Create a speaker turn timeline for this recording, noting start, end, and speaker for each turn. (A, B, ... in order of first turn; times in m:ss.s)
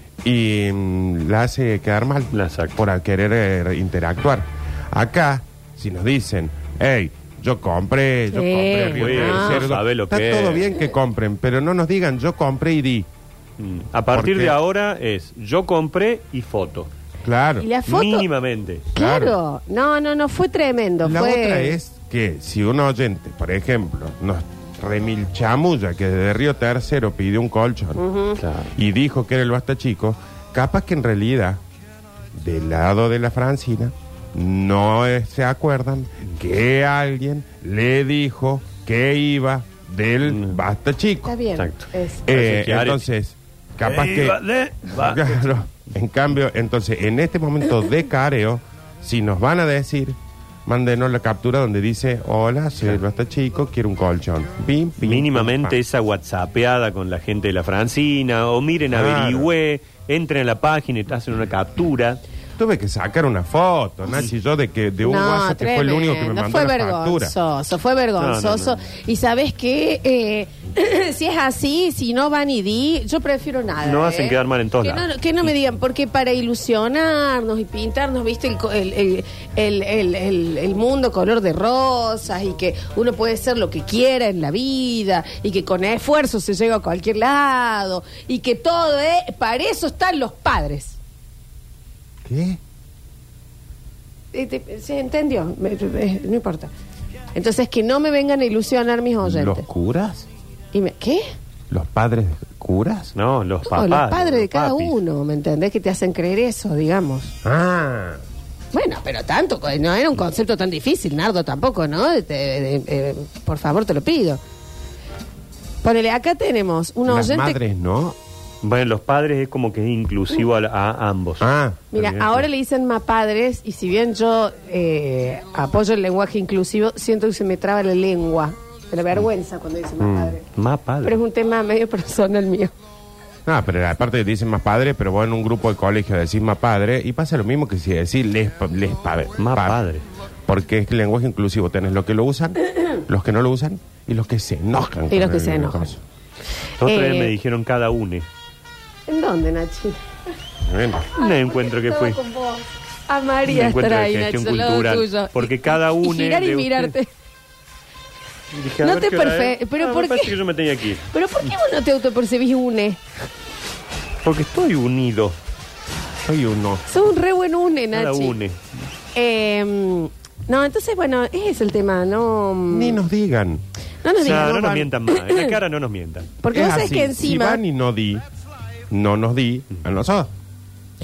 0:00.2-0:13.1 A
0:02.3-0:02.8 B
0:08.3-0:09.7 C
0:08.9-0:10.7 B
0:13.6-0:16.9 B
0:14.1-0:14.6 A
0:17.2-0:17.7 A
0:17.6-0:18.3 C
0:17.8-0:18.9 B
0:18.9-0:19.4 A
0:18.9-0:21.8 C
0:21.0-0:28.0 A
0:28.0-0:28.4 C
0:28.4-0:28.7 B
0:28.7-0:31.6 A
0:32.3-0:41.3 A
0:40.2-0:40.6 B
0:41.2-0:42.3 C
0:41.6-0:43.1 B
0:42.2-0:55.8 A
0:43.8-0:45.5 B
0:55.0-1:02.2 B
0:58.9-0:59.5 A
1:02.6-1:07.3 A
1:05.0-1:31.0 C
1:08.2-1:08.8 B
1:13.8-1:15.1 B
1:32.2-1:32.6 A
1:34.3-1:36.7 C
1:37.3-1:39.6 C
1:39.2-1:40.3 A
1:40.7-1:41.2 C
1:41.7-1:43.1 A
1:43.1-1:45.0 B
1:43.6-1:47.3 C
1:47.4-1:48.2 A
1:48.7-1:54.4 C
1:55.8-1:57.6 C
1:57.1-1:58.2 A
1:58.6-2:01.4 B
2:01.4-2:02.4 A
2:01.9-2:10.4 C
2:10.0-2:10.4 A
2:10.5-2:11.2 B
2:11.0-2:12.7 C
2:13.4-2:19.8 A
2:19.4-2:20.0 B
2:20.5-2:26.0 A
2:25.1-2:25.9 C
2:26.8-2:28.2 B
2:26.8-2:27.3 C
2:29.1-2:30.0 C
2:30.7-2:31.1 A
2:31.1-2:37.1 C
2:31.2-2:32.2 B
2:33.5-2:36.9 B
2:38.5-2:41.0 B
2:38.8-2:40.4 C
2:41.1-2:43.0 C
2:44.2-2:45.4 B
2:46.2-2:46.9 A
2:46.9-2:48.4 C
2:47.9-2:48.6 B
2:49.1-2:53.0 C
2:52.7-2:53.6 A
2:54.0-2:55.5 C
2:54.2-2:56.4 B
2:54.2-2:54.8 A
2:56.4-2:57.6 C
2:56.5-2:58.2 A
2:58.9-3:00.3 A